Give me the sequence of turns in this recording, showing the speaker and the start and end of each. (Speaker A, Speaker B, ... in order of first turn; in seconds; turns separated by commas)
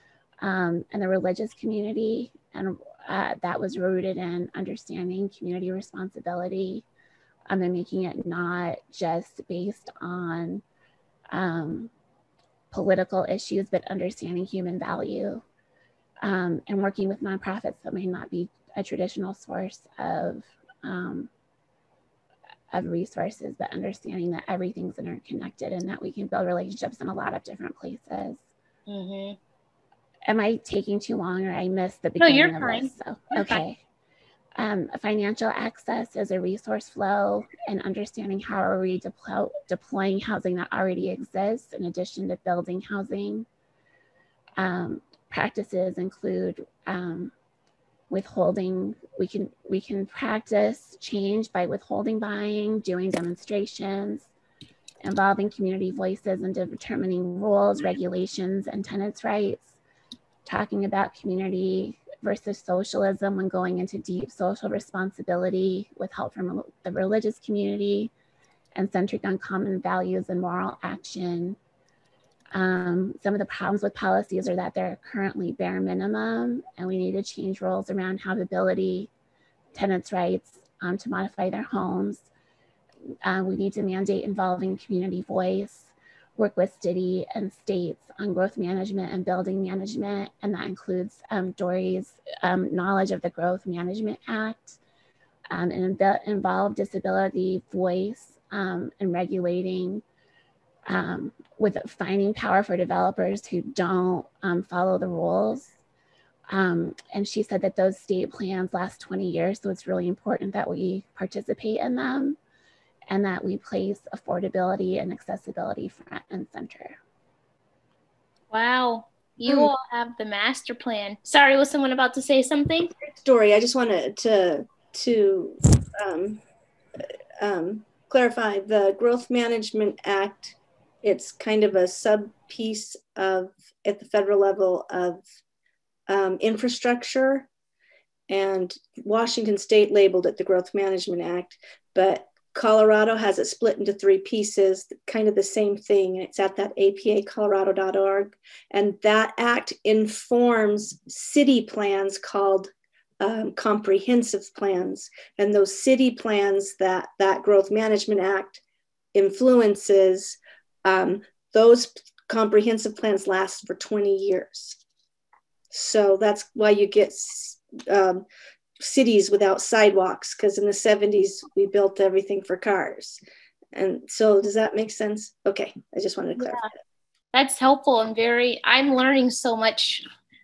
Speaker A: 0.4-6.8, Speaker A: 7.5-10.6, Speaker A: 11.3-11.9, Speaker A: 12.7-15.4, Speaker A: 16.2-21.3, Speaker A: 22.7-28.4, Speaker B: 28.9-29.4, Speaker A: 30.3-33.8, Speaker B: 32.2-33.6, Speaker A: 34.6-43.5, Speaker A: 44.6-47.3, Speaker A: 48.1-54.3, Speaker A: 55.0-59.8, Speaker A: 60.5-68.1, Speaker A: 68.8-71.6, Speaker A: 72.5-79.1, Speaker A: 79.7-82.3, Speaker A: 83.2-94.8, Speaker A: 95.5-100.0, Speaker A: 100.9-105.7, Speaker A: 106.5-112.4, Speaker A: 113.1-117.0, Speaker B: 118.5-122.9, Speaker C: 123.0-126.4, Speaker C: 127.4-135.2, Speaker C: 136.1-137.5, Speaker C: 138.3-158.6, Speaker C: 159.2-164.8, Speaker C: 165.7-168.3, Speaker C: 168.8-173.2, Speaker C: 173.7-176.7, Speaker B: 177.3-180.1